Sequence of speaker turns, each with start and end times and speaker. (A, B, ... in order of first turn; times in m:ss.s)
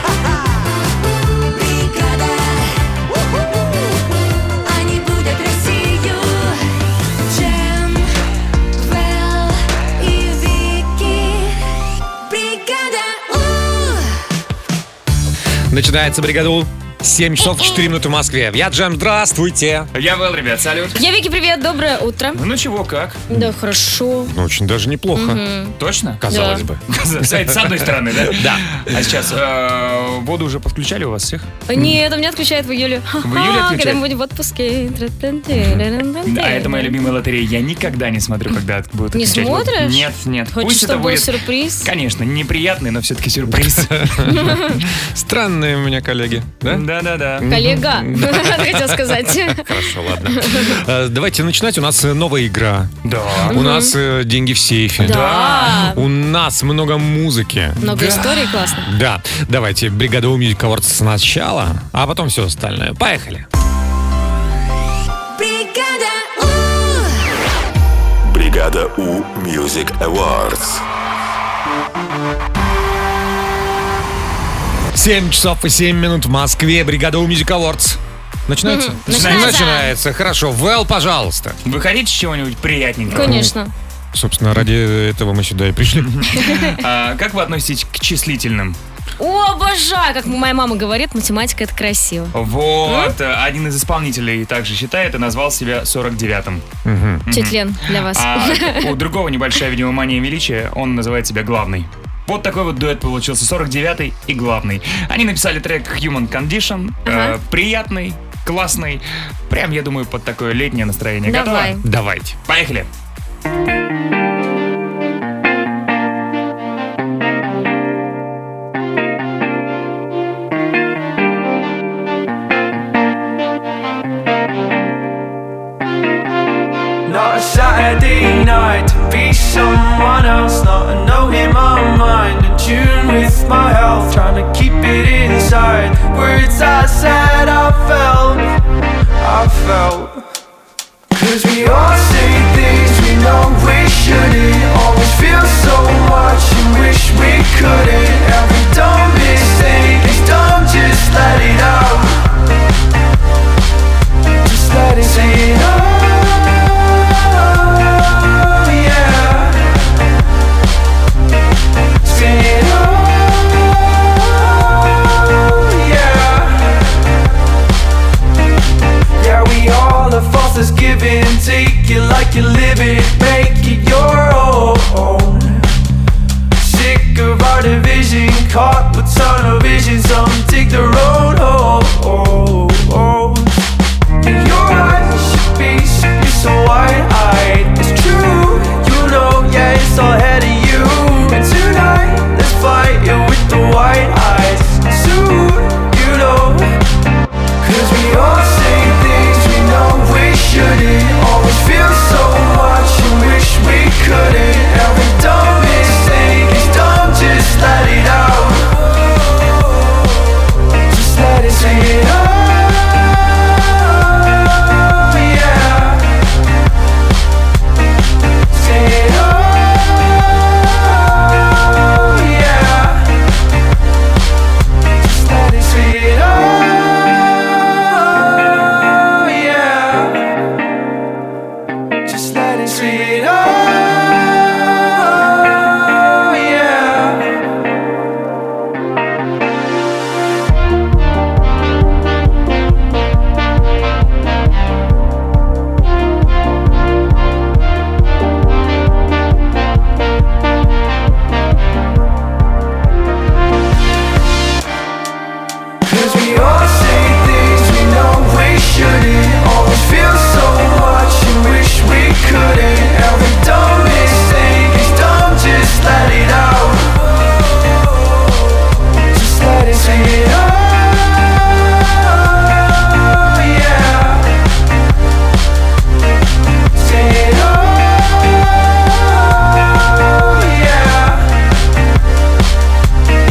0:01.0-0:02.8 A
0:04.6-0:06.6 A
0:07.3-0:08.1 A
0:08.8-0:11.5 A
0:12.2-0:14.2 A
0:15.7-0:19.9 B
0:19.9-0:21.0 C
0:20.9-0:22.4 D
0:22.3-0:23.2 C
0:23.3-0:24.3 D
0:24.3-0:25.4 B
0:25.2-0:25.8 D
0:25.8-0:26.2 C
0:26.2-0:27.7 B
0:26.3-0:26.6 D
0:26.9-0:31.5 C
0:28.2-0:28.6 B
0:31.7-0:37.0 D
0:33.2-0:34.0 C
0:35.5-0:35.8 B
0:36.2-0:41.3 C
0:39.1-0:41.9 D
0:41.8-0:44.6 C
0:43.5-0:46.8 B
0:44.3-0:44.8 D
0:46.6-0:47.5 C
0:47.4-0:52.9 B
0:47.4-0:49.7 D
0:50.3-0:50.7 D
0:53.0-0:53.6 C
0:53.4-1:03.4 B
0:53.5-0:53.9 D
0:55.0-0:56.0 D
0:55.0-0:55.8 C
0:57.8-0:58.9 D
1:05.3-1:07.2 A
1:08.2-1:10.8 E
1:14.9-1:21.6 B
1:18.6-1:19.9 D
1:19.1-1:19.6 C
1:21.6-1:23.4 C
1:23.1-1:23.7 D
1:23.2-1:23.5 B
1:24.1-1:26.1 B
1:25.9-1:28.8 C
1:26.4-1:26.7 D
1:29.2-1:32.3 D
1:32.3-1:36.6 C
1:32.8-1:33.1 D
1:36.8-1:37.2 B
1:37.3-1:51.9 C
1:37.3-1:38.9 D
1:47.0-1:47.3 D
1:51.2-1:51.8 D
1:51.8-1:52.3 B
1:52.4-1:52.9 C
2:07.0-2:18.5 F
2:19.2-2:20.2 F
2:21.1-2:32.3 F
2:34.4-2:39.8 F
2:42.0-2:46.9 F
2:49.2-2:55.7 F
2:56.6-3:03.5 F
3:04.2-3:16.7 F
3:17.6-3:29.9 F
3:30.9-3:36.2 F
3:38.5-3:43.1 F
3:45.0-3:50.3 F
3:52.0-3:57.3 F
4:15.8-4:34.3 F
4:36.7-4:41.3 F